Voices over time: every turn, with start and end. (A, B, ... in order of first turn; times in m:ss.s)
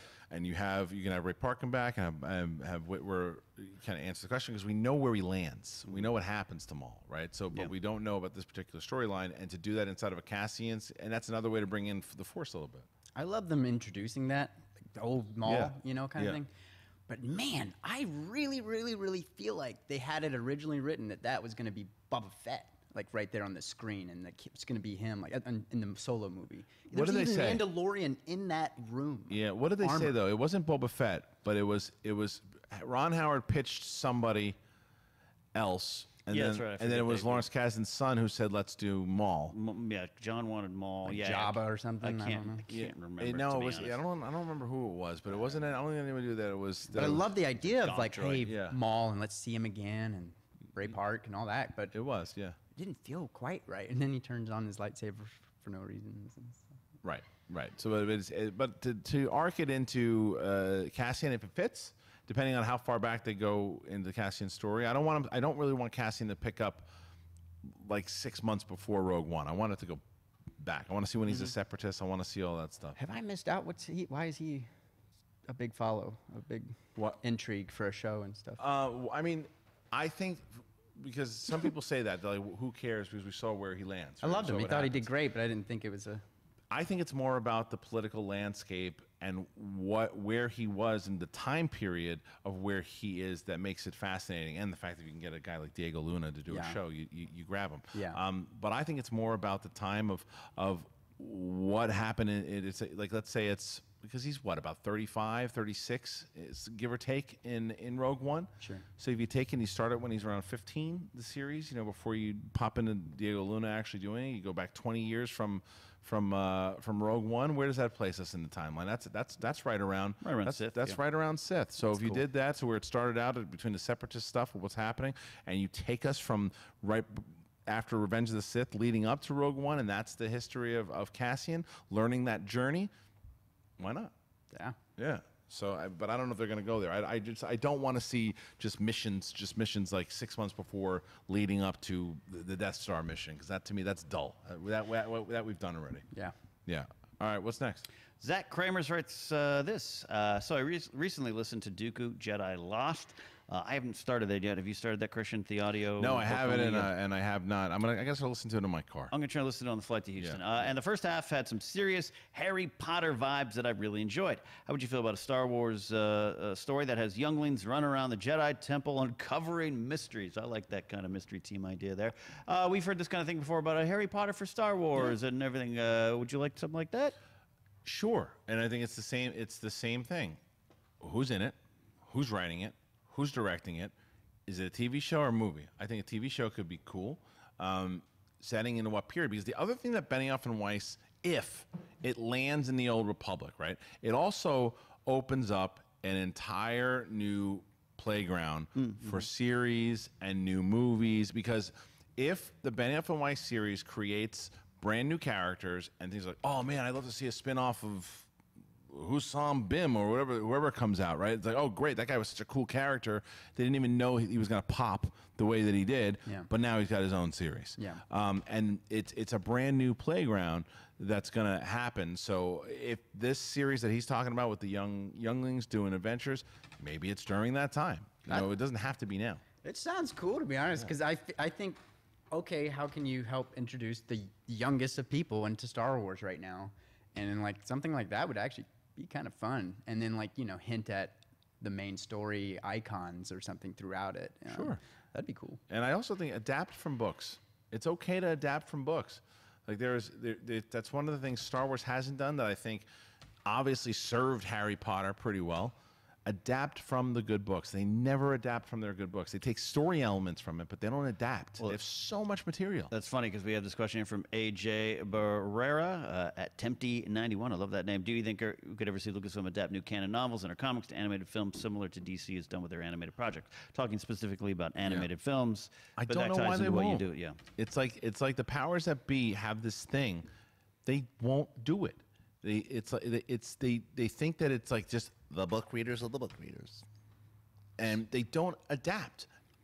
0:00.3-0:12.9 A
0:13.1-0:16.5 B
0:15.4-0:16.4 A
0:17.1-0:30.1 B
0:26.9-0:27.7 A
0:29.3-0:34.6 A
0:35.5-0:39.6 A
0:36.3-0:37.4 C
0:39.5-0:44.0 C
0:41.1-0:42.6 B
0:42.7-0:47.3 A
0:46.9-0:51.9 B
0:47.7-0:48.5 C
0:48.4-0:48.8 A
0:51.9-0:52.6 A
0:52.7-0:56.7 B
0:57.0-1:06.9 A
1:07.6-1:10.0 A
1:10.6-1:13.0 A
1:13.0-1:14.7 B
1:15.5-1:18.6 B
1:18.6-1:25.1 A
1:24.2-1:26.2 B
1:26.7-2:12.9 A
1:36.5-1:36.8 B
1:37.9-1:38.2 B
1:48.6-1:48.9 B
2:00.2-2:01.0 C
2:01.9-2:02.2 C
2:13.8-2:14.1 A
2:14.5-2:14.8 B
2:15.0-2:26.1 A
2:26.7-2:27.9 A
2:28.2-2:36.9 C
2:36.0-2:39.1 A
2:39.1-2:57.2 C
2:57.8-3:00.4 A
3:01.0-3:03.9 A
3:04.5-3:28.3 A
3:18.8-3:19.1 C
3:28.9-3:49.4 A
3:37.8-3:38.0 B
3:49.6-3:51.8 B
3:52.3-4:05.6 B
4:04.5-4:04.8 A
4:05.7-4:12.9 A
4:13.4-4:22.9 A
4:22.9-4:37.4 C
4:36.0-4:40.3 A
4:40.8-4:46.9 A
4:47.8-4:49.3 A